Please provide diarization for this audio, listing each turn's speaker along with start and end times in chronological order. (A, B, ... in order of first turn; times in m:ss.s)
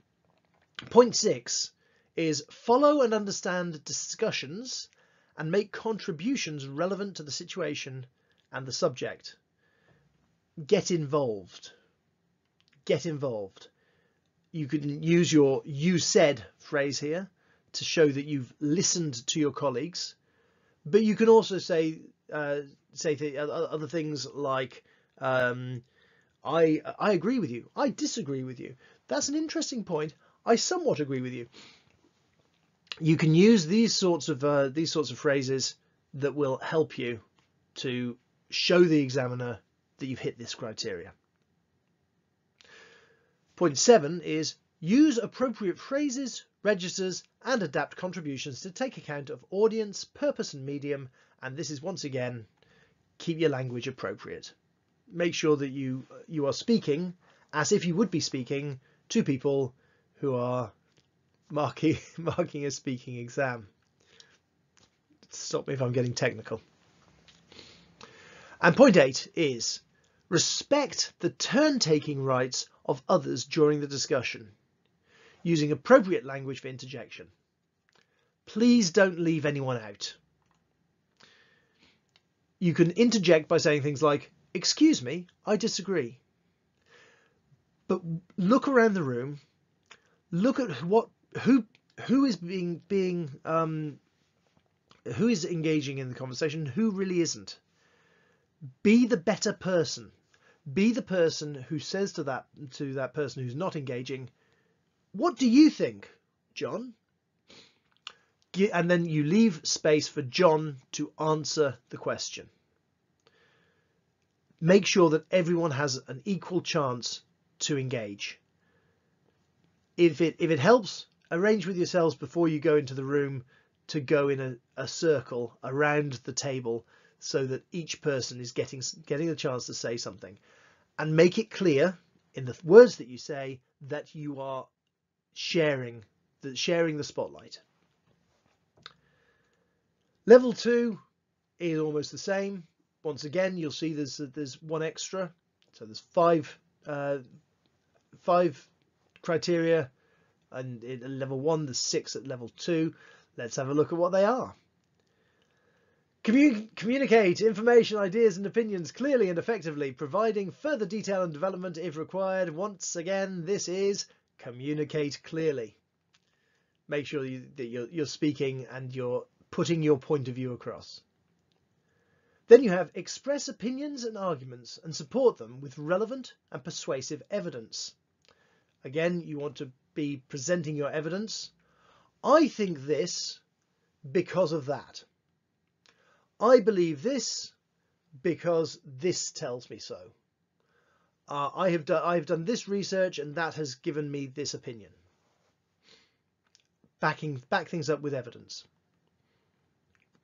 0:00.8-0:09.4 A
0:10.6-0:11.7 A
0:12.8-0:13.7 A
0:14.5-0:20.2 A
0:20.8-0:25.8 A
0:26.4-0:31.5 A
0:33.0-0:37.2 A
0:37.7-0:41.1 A
0:43.6-0:52.5 A
0:53.2-0:54.5 A
0:55.1-1:00.7 A
1:01.5-1:03.7 A
1:05.3-1:06.6 A
1:08.6-1:14.5 A
1:15.4-1:17.3 A
1:18.4-1:20.2 A
1:22.6-1:26.2 A
1:27.9-1:29.4 A
1:30.3-1:34.0 A
1:35.0-1:37.6 A
1:38.8-1:40.1 A
1:40.7-1:44.3 A
1:45.1-1:46.9 A
1:48.5-1:52.5 A
1:54.6-1:58.4 A
2:00.0-2:10.4 A
2:11.0-2:14.7 A
2:15.3-2:17.6 A
2:20.2-2:21.0 A
2:21.6-2:27.2 A
2:28.1-2:29.9 A
2:30.5-2:34.5 A
2:36.2-2:45.8 A
2:46.9-2:51.0 A
2:52.5-2:57.9 A
2:58.8-3:01.5 A
3:02.2-3:03.4 A
3:04.0-3:05.0 A
3:06.4-3:07.5 A
3:08.2-3:10.1 A
3:11.3-3:15.0 A
3:17.0-3:18.6 A